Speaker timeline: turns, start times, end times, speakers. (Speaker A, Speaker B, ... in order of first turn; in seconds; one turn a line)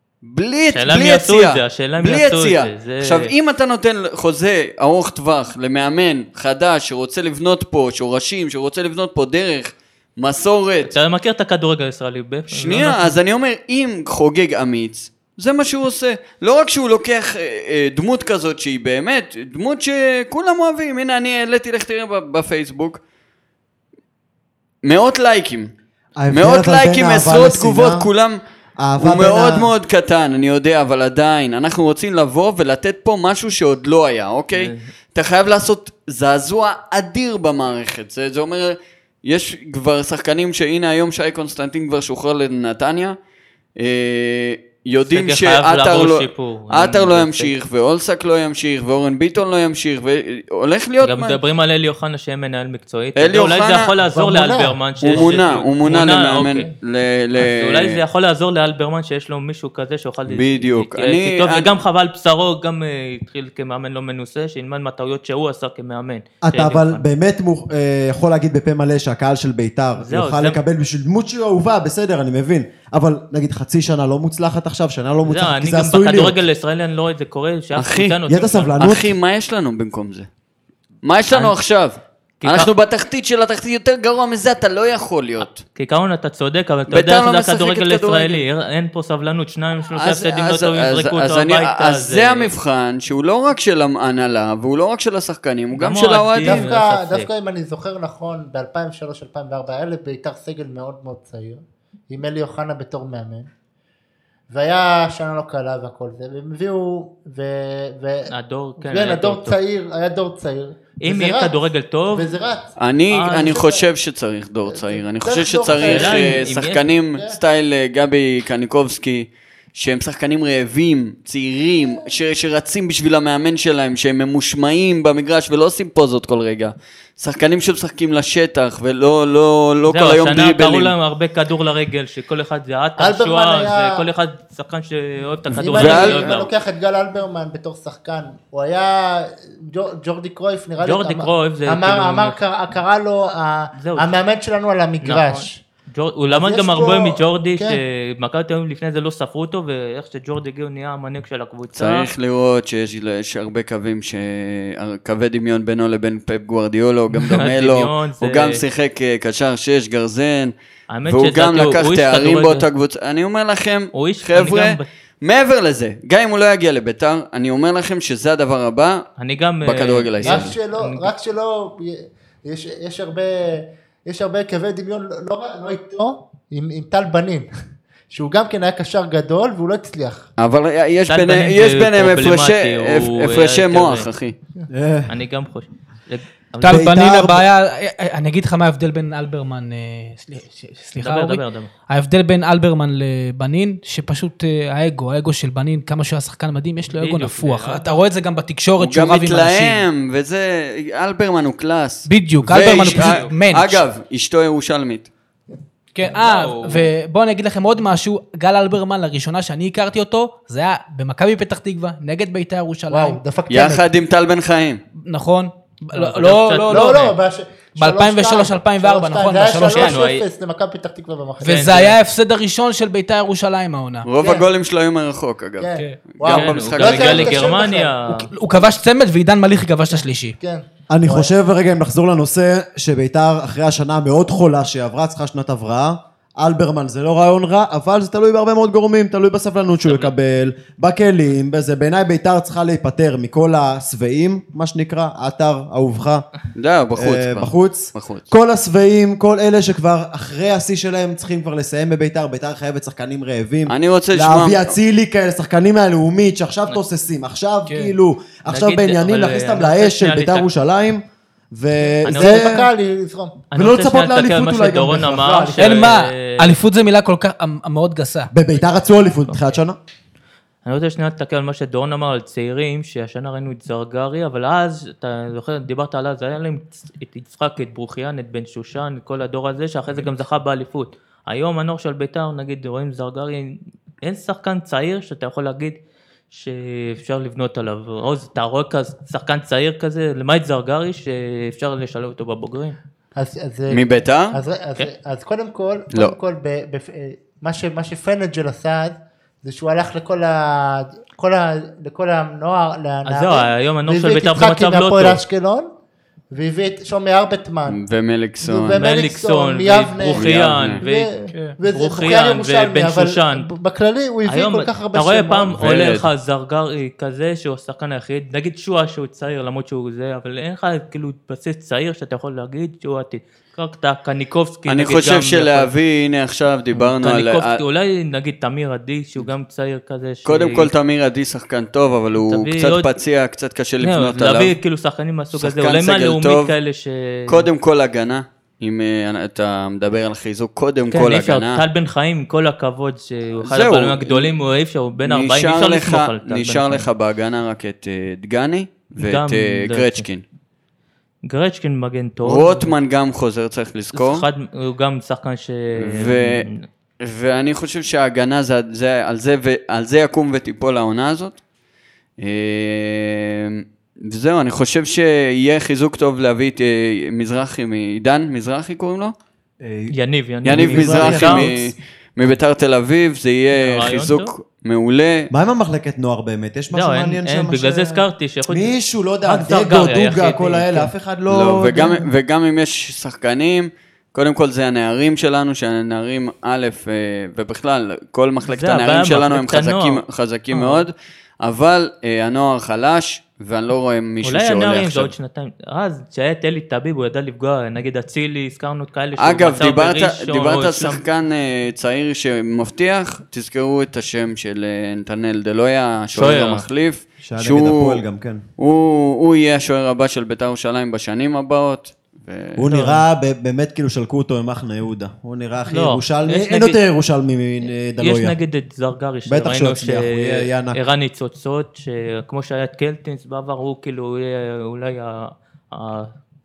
Speaker A: 0.2-10.9
Speaker B: 0.7-3.3
Speaker B: 10.8-13.2
Speaker A: 12.5-23.0
Speaker A: 24.8-25.7
Speaker C: 26.2-28.1
Speaker A: 26.3-28.4
Speaker C: 28.8-29.7
Speaker A: 29.0-43.2
Speaker B: 34.5-34.9
Speaker A: 43.8-51.4
Speaker B: 45.0-47.5
Speaker B: 51.0-56.7
Speaker A: 53.2-53.9
Speaker D: 54.0-55.2
Speaker A: 55.0-58.0
Speaker B: 57.4-67.0
Speaker A: 60.3-61.7
Speaker C: 66.4-76.4
Speaker B: 70.0-70.6
Speaker B: 75.2-78.9
Speaker A: 77.8-78.2
Speaker C: 78.3-79.2
Speaker A: 78.8-80.3
Speaker A: 81.0-85.6
Speaker B: 82.4-82.7
Speaker B: 85.8-92.5
Speaker A: 86.9-88.4
Speaker A: 89.9-96.7
Speaker B: 95.7-97.3
Speaker D: 96.4-103.5
Speaker D: 104.5-111.5
Speaker B: 108.3-109.6
Speaker B: 111.0-112.3
Speaker D: 112.1-112.7
Speaker A: 112.8-130.9
Speaker B: 113.1-113.8
Speaker D: 114.7-117.4
Speaker B: 115.8-116.9
Speaker B: 129.9-136.5
Speaker D: 133.0-134.1
Speaker D: 135.5-145.6
Speaker A: 135.6-136.3
Speaker B: 140.8-142.4
Speaker B: 143.8-144.1
Speaker B: 145.0-152.1
Speaker D: 146.3-147.8
Speaker A: 151.7-160.5
Speaker B: 157.1-158.6
Speaker B: 160.9-162.7
Speaker A: 161.1-169.0
Speaker B: 163.9-164.9
Speaker B: 169.2-171.1
Speaker A: 169.6-170.6
Speaker D: 170.2-177.5
Speaker D: 178.1-180.3
Speaker A: 180.4-184.4
Speaker B: 181.1-184.1
Speaker C: 184.7-185.1
Speaker B: 185.1-186.9
Speaker E: 186.6-199.8
Speaker C: 186.6-187.4
Speaker B: 191.0-191.7
Speaker B: 196.9-197.9
Speaker A: 198.8-205.1
Speaker E: 202.1-203.8
Speaker B: 202.5-203.3
Speaker E: 205.9-213.2
Speaker B: 206.2-206.9
Speaker D: 212.9-213.9
Speaker A: 213.5-214.8
Speaker E: 215.0-217.1
Speaker B: 215.9-217.2
Speaker D: 216.7-221.7
Speaker E: 217.8-220.1
Speaker B: 219.7-220.2
Speaker E: 221.4-224.1
Speaker B: 221.4-221.9
Speaker A: 224.1-227.6
Speaker D: 224.2-224.5
Speaker D: 225.6-227.9
Speaker B: 226.3-228.3
Speaker E: 228.1-230.4
Speaker D: 230.4-231.3
Speaker C: 230.9-246.3
Speaker B: 239.9-240.1
Speaker A: 246.6-248.3
Speaker C: 247.0-262.7
Speaker A: 253.7-254.7
Speaker E: 257.7-257.9
Speaker B: 258.5-260.5
Speaker B: 262.1-262.6
Speaker D: 262.1-263.4
Speaker B: 263.5-266.5
Speaker C: 263.5-265.8
Speaker E: 265.6-268.3
Speaker C: 268.3-269.8
Speaker B: 270.6-285.8
Speaker B: 286.3-292.8
Speaker D: 293.2-305.7
Speaker A: 293.7-294.4
Speaker B: 303.1-305.2
Speaker D: 306.3-307.8
Speaker A: 307.7-308.9
Speaker D: 308.4-315.6
Speaker B: 308.8-311.1
Speaker A: 310.1-310.8
Speaker E: 311.3-311.6
Speaker B: 311.6-313.5
Speaker B: 314.3-325.7
Speaker A: 315.6-316.1
Speaker A: 324.7-327.6
Speaker B: 326.7-330.7
Speaker A: 330.2-334.6
Speaker B: 332.2-332.9
Speaker B: 333.8-337.5
Speaker A: 335.4-336.6
Speaker A: 337.3-341.6
Speaker B: 340.9-346.9
Speaker A: 343.4-344.4
Speaker A: 345.0-350.2
Speaker B: 349.0-350.1
Speaker B: 351.3-352.7
Speaker A: 352.2-354.3
Speaker B: 353.9-356.6
Speaker A: 355.8-356.5
Speaker A: 357.0-361.4
Speaker A: 362.2-369.1
Speaker C: 369.6-369.9
Speaker B: 369.9-371.5
Speaker C: 370.4-371.7
Speaker A: 370.4-375.3
Speaker B: 373.5-374.3
Speaker C: 375.3-382.0
Speaker B: 376.7-378.7
Speaker B: 379.2-380.9
Speaker A: 381.3-395.1
Speaker B: 388.4-390.9
Speaker B: 394.2-401.0
Speaker A: 399.2-408.0
Speaker B: 406.1-406.6
Speaker C: 407.2-408.4
Speaker A: 408.6-412.6
Speaker C: 412.6-418.4
Speaker B: 412.7-413.1
Speaker B: 415.7-416.8
Speaker B: 418.0-426.1
Speaker C: 419.3-420.8